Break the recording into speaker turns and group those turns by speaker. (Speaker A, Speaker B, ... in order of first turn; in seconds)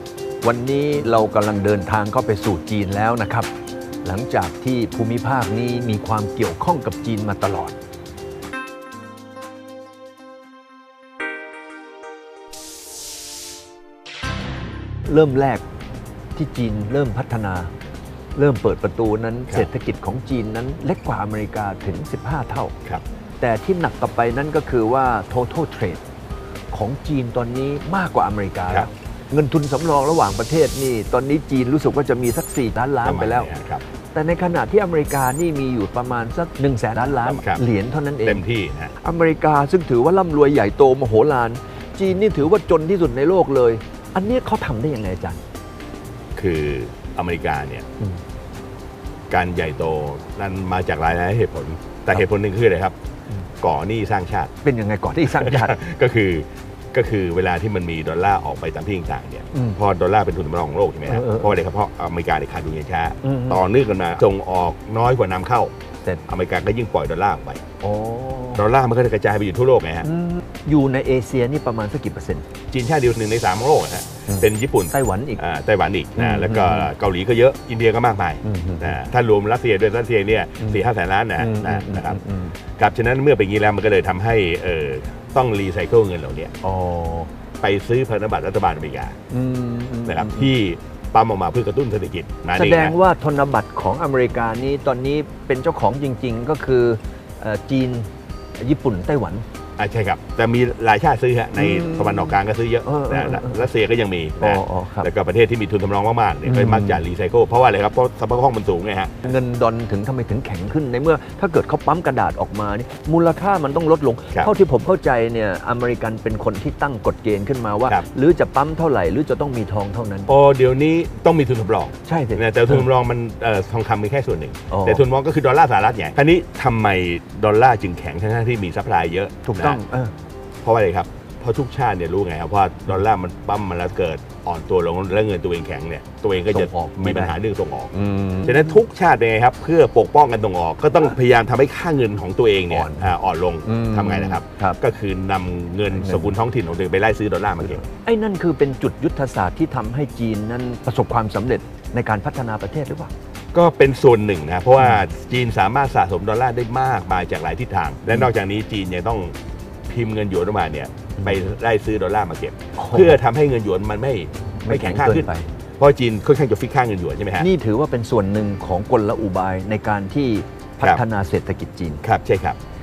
Speaker A: 0.4-3.5, 4.0-7.8, 15.1-15.6, 16.4-17.7, 18.4-22.7, 23.4-26.0, 26.7-33.5, 34.1-38.4, 39.0-45.4, 54.6-55.8, 61.1-61.6, 63.2-63.6, 67.8-68.7, 70.0-72.5, 74.3-75.4, 76.2-76.9, 78.4-79.0, 81.4-82.6, 86.6-87.3, 89.3-90.5, 92.5-99.5, 101.5-103.7, 104.4-105.1, 106.5-107.0, 109.2-120.3, 122.0-122.9, 124.7-125.0, 129.4-130.1, 136.5-137.4, 137.9-138.8, 142.7-143.1, 143.7-144.8, 145.9-146.3, 147.9-153.1, 162.8-163.2, 164.6-165.5, 167.4-172.0
Speaker B: 33.0-33.8, 37.2-37.6, 38.2-39.0, 46.4-47.9, 49.3-53.0, 53.6-54.5, 55.2-65.7, 66.3-67.6, 68.5-70.1, 72.7-82.2, 82.8-86.5, 87.6-89.2, 90.0-93.0, 99.8-109.2, 120.3-129.8, 130.6-147.8, 153.5-159.4, 159.9-167.5, 172.0-172.6